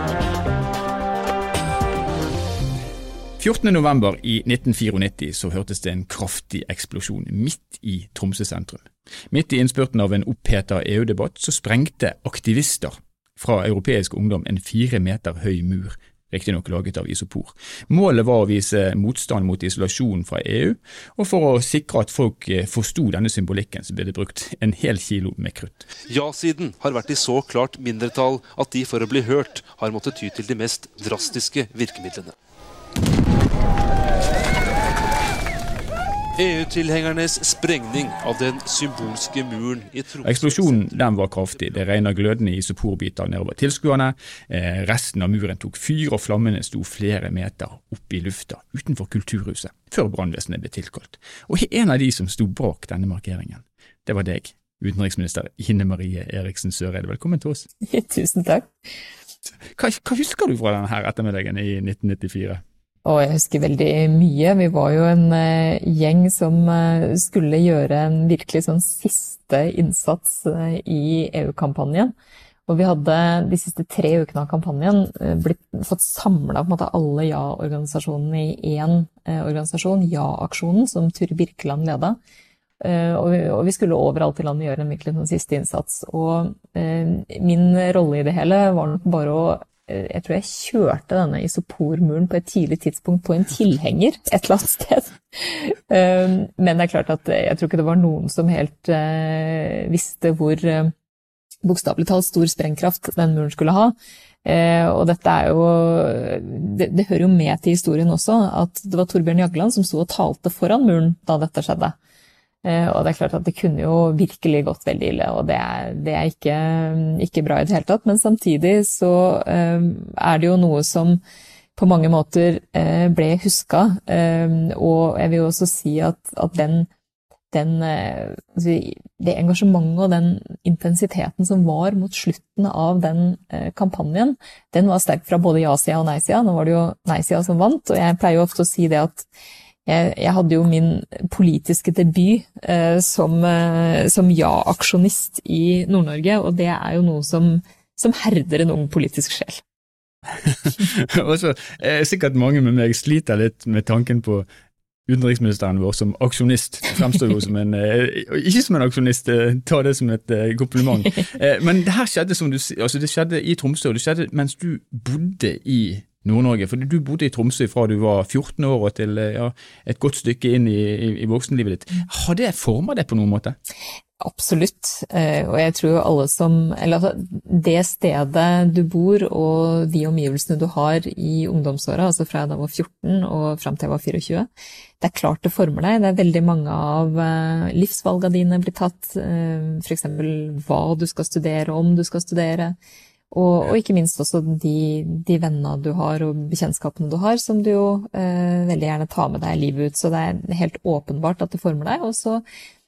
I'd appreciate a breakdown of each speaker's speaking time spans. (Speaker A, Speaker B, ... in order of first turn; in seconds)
Speaker A: 3.4-25.9, 40.2-57.7, 59.7-62.6, 150.5-154.5, 155.1-173.6
Speaker B: 26.1-32.3, 36.4-40.9
Speaker C: 57.9-58.7, 63.0-72.1, 72.7-82.2, 82.8-100.9, 101.6-112.0, 112.6-121.2, 121.8-126.9, 127.5-139.3, 139.9-149.6, 174.2-184.5, 185.0-192.8, 193.3-202.4